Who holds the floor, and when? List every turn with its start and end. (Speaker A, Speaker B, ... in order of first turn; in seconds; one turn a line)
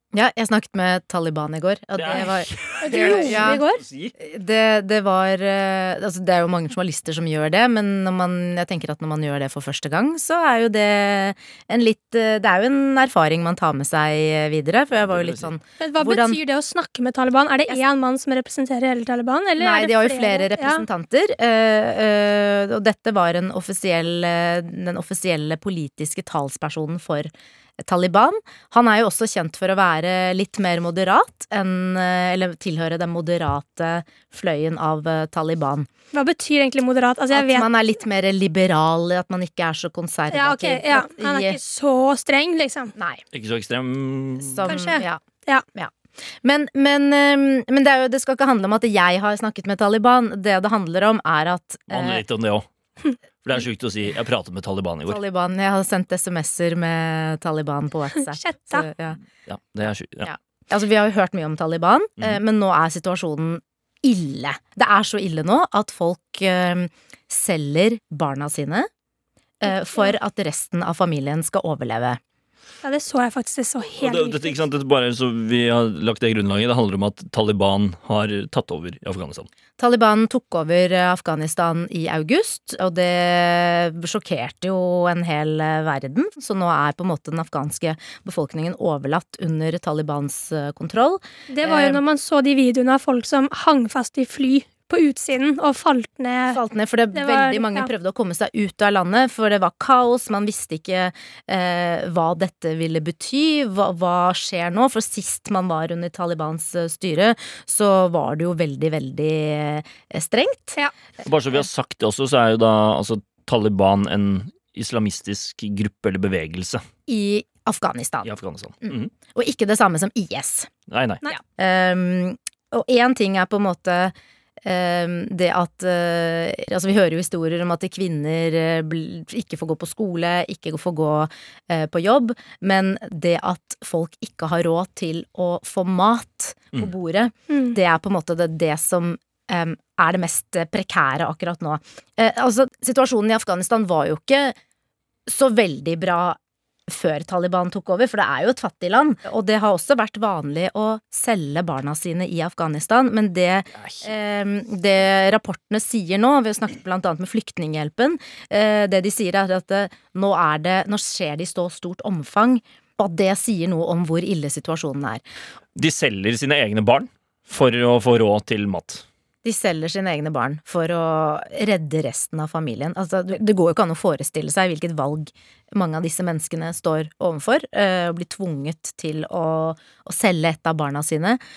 Speaker A: 0.1-3.6
Speaker B: 1.9-4.1
Speaker C: 2.8-3.8
Speaker A: 4.2-16.4
Speaker B: 14.9-15.5
Speaker C: 15.8-20.8
Speaker A: 19.6-35.9
Speaker C: 36.1-37.7
Speaker A: 37.3-41.6
Speaker C: 40.3-42.9
Speaker A: 42.9-43.2
Speaker B: 43.3-44.7
Speaker A: 44.4-45.2
Speaker C: 44.6-45.6
Speaker A: 45.7-52.2
Speaker B: 51.9-52.6
Speaker B: 53.4-55.2
Speaker A: 55.1-59.2
Speaker C: 58.1-58.9
Speaker B: 59.5-60.3
Speaker A: 60.2-68.9
Speaker A: 69.6-72.2
Speaker C: 69.7-70.1
Speaker C: 72.8-74.6
Speaker B: 74.0-79.5
Speaker A: 79.8-92.0
Speaker C: 91.5-96.6
Speaker A: 96.5-110.8
Speaker C: 97.1-97.9
Speaker B: 111.2-116.8
Speaker A: 117.1-118.3
Speaker B: 118.2-119.1
Speaker A: 118.8-120.7
Speaker B: 120.9-121.2
Speaker A: 121.4-144.6
Speaker C: 137.5-137.8
Speaker A: 145.3-165.2
Speaker B: 153.8-154.0
Speaker B: 165.8-169.0
Speaker A: 169.4-181.4